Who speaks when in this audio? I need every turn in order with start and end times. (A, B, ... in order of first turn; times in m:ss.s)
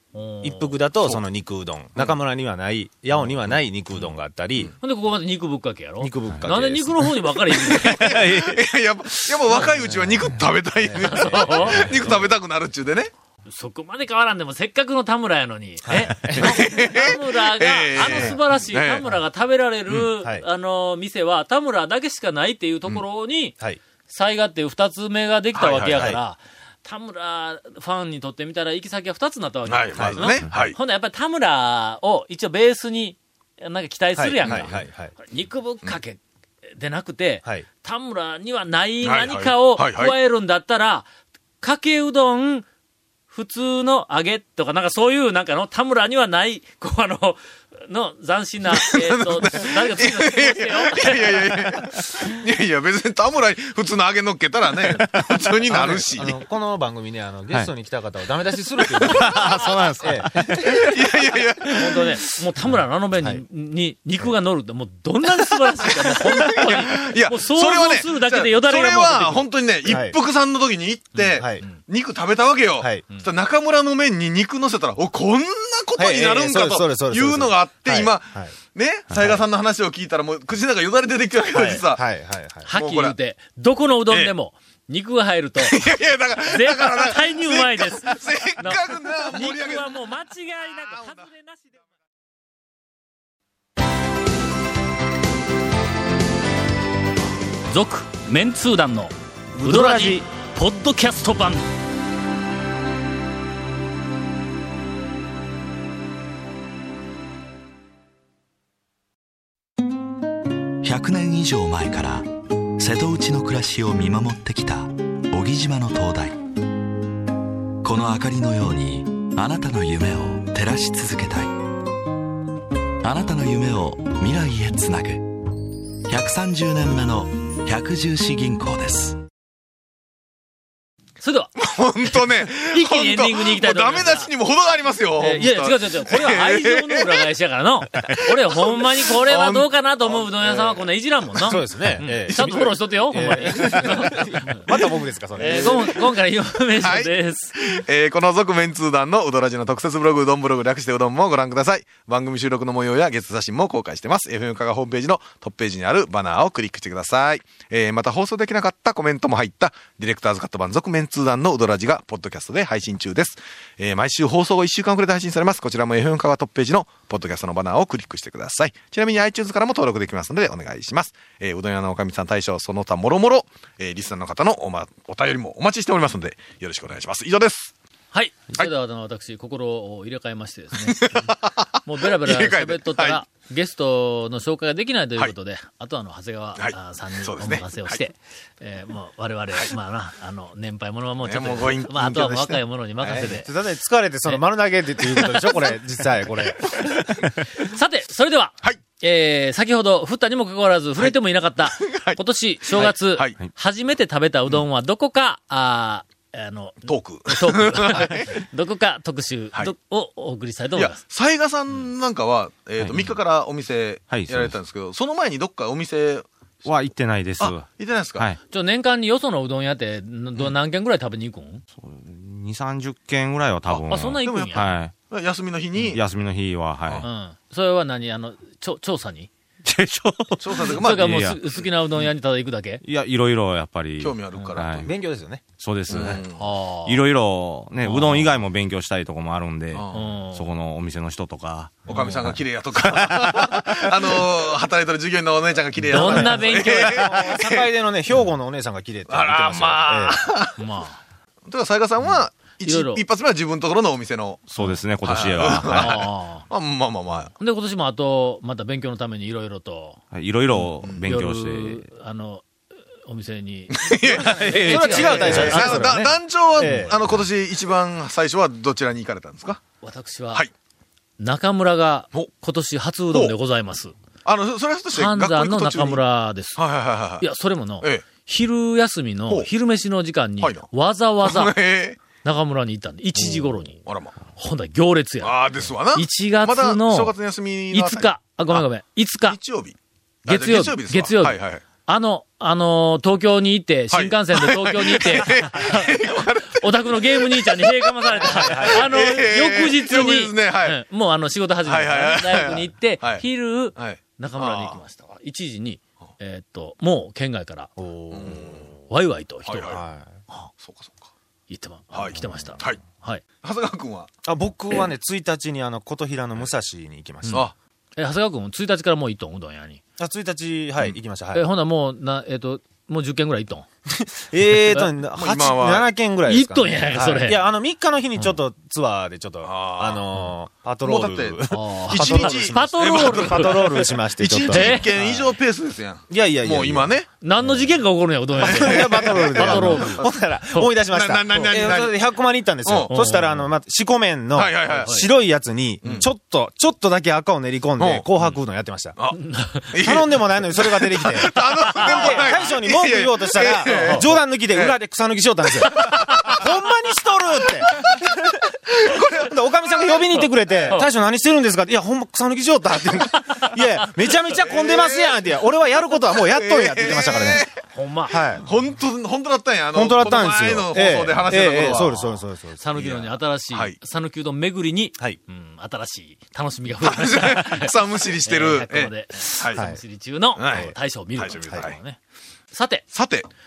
0:00.1-0:00.8 A
0:00.4-0:04.7 B
0:04.8-0:08.2 A
0:06.0-0:08.6 B
0:07.7-0:13.1 C
0:10.8-0:12.1 B
0:11.0-0:11.9 A
0:11.8-0:12.1 D
0:13.5-0:23.6 A
0:15.8-0:16.6 B
0:16.3-0:19.0 C
0:18.0-0:18.4 B
0:20.2-0:20.4 B
0:24.1-0:36.2 A
0:25.6-0:26.1 C
0:25.9-0:26.2 B
0:29.7-0:30.8 C
0:34.2-0:35.1 B
0:34.5-0:34.8 C
0:36.8-0:41.1 A
0:39.0-0:40.2 C
0:41.6-0:42.7 A
0:43.3-0:51.6 A
0:48.6-0:56.4 C
0:55.7-1:00.9 B
0:59.0-0:59.5 C
0:59.0-1:00.8 D
1:00.7-1:02.2 C
1:01.7-1:02.1 B
1:01.8-1:09.5 A
1:06.0-1:22.0 C
1:09.8-1:10.2 B
1:11.2-1:11.8 A
1:11.3-1:11.6 B
1:12.8-1:13.0 B
1:16.0-1:18.6 B
1:19.1-1:19.4 D
1:21.5-1:22.7 B
1:22.7-1:25.8 A
1:22.7-1:23.2 C
1:25.6-1:29.9 C
1:26.5-1:31.8 A
1:30.8-1:31.3 C
1:37.7-1:41.6 A
1:39.6-1:40.2 B
1:50.8-1:56.4 E
1:57.8-2:01.7 E
2:03.0-2:05.6 E
2:06.1-2:09.2 E
2:11.2-2:14.3 A
2:11.6-2:17.3 C
2:15.2-2:24.6 A
2:15.2-2:15.5 B
2:18.0-2:21.6 C
2:21.4-2:26.0 B
2:22.3-2:24.4 C
2:25.4-2:27.6 A
2:25.4-2:26.0 C
2:26.8-2:57.7 C
2:58.1-3:01.0 A
3:00.8-3:03.2 C
3:01.8-3:13.5 A
3:06.6-3:08.0 C
3:11.2-3:12.6 C
3:13.0-3:16.9 B
3:15.0-3:15.8 A
3:16.8-3:17.3 C
3:17.6-3:31.0 A
3:21.0-3:23.4 C
3:26.8-3:28.4 C
3:30.8-3:36.3 C
3:32.8-3:33.2 D
3:34.1-3:34.6 D
3:36.6-3:38.4 D
3:37.4-3:38.3 C
3:38.5-3:41.6 A
3:41.8-3:45.0 D
3:43.7-3:46.0 C
3:43.9-3:44.6 A
3:45.8-3:47.1 D
3:47.0-3:49.3 A
3:49.6-3:51.4 D
3:50.4-3:51.6 C
3:50.7-3:52.8 A
3:52.8-3:54.9 D
3:54.0-3:54.9 C
3:54.8-3:55.4 B
3:55.6-3:56.2 D
3:55.9-3:56.4 C
3:56.3-3:57.0 A
3:56.8-4:03.7 D
3:57.9-3:58.3 A
3:59.7-4:00.1 C
3:59.9-4:00.5 A
4:01.9-4:07.7 C
4:05.9-4:07.4 A
4:06.0-4:10.3 B
4:09.1-4:10.6 C
4:10.6-4:11.0 A
4:11.5-4:14.5 C
4:12.6-4:13.0 A
4:14.5-4:16.1 D
4:15.0-4:17.3 C
4:15.7-4:16.5 A
4:17.4-4:20.0 A
4:20.1-4:21.9 D
4:20.6-4:21.0 C
4:21.0-4:22.4 A
4:23.1-4:26.2 A
4:23.7-4:29.6 C
4:24.3-4:25.7 D
4:24.4-4:27.0 B
4:29.8-4:30.4 A
4:31.2-4:33.9 A
4:34.2-4:36.0 C
4:34.9-4:36.6 A
4:36.6-4:37.3 C
4:37.2-4:41.6 A
4:40.4-4:40.7 C
4:41.2-4:42.0 C
4:42.2-4:43.8 A
4:43.2-4:44.2 C
4:44.4-4:47.2 A
4:45.2-4:48.6 C
4:47.7-4:49.4 A
4:49.2-4:51.6 C
4:50.3-5:07.7 A
4:53.9-5:00.8 C
4:58.4-4:58.9 B
5:01.6-5:04.8 C
5:07.8-5:08.4 B
5:08.1-5:08.7 C
5:08.9-5:10.5 A
5:09.5-5:09.8 C
5:09.7-5:10.2 B
5:10.6-5:11.1 C
5:11.5-5:13.2 A
5:11.9-5:12.8 C
5:13.4-5:14.1 C
5:14.2-5:17.5 B
5:18.0-5:19.8 A
5:20.0-5:21.5 B
5:21.3-5:23.7 A
5:23.9-5:35.3 B
5:25.2-5:25.9 C
5:26.3-5:27.4 A
5:29.4-5:30.2 C
5:30.8-5:37.1 C
5:31.5-5:33.9 A
5:34.5-5:34.9 A
5:36.1-5:36.9 B
5:37.2-5:40.7 A
5:38.4-5:49.0 B
5:38.4-5:40.0 C
5:40.9-5:42.0 C
5:42.6-5:43.2 C
5:42.9-5:43.4 A
5:44.3-5:45.1 C
5:44.7-5:45.0 A
5:45.8-5:46.1 C
5:47.8-5:48.1 C
5:49.1-5:49.7 A
5:49.7-5:54.8 C
5:49.8-6:07.5 B
5:51.5-5:52.5 A
5:53.7-5:54.1 A
5:55.6-5:56.4 C
5:58.8-6:00.1 C
6:03.1-6:03.9 A
6:04.5-6:05.4 C
6:06.1-6:07.6 C
6:07.7-6:08.2 A
6:08.1-6:08.5 B
6:08.2-6:12.0 C
6:09.7-6:12.6 B
6:12.6-6:22.0 A
6:12.8-6:13.8 C
6:16.8-6:19.6 C
6:19.5-6:19.8 B
6:20.4-6:21.8 C
6:22.5-6:22.9 A
6:22.9-6:23.3 C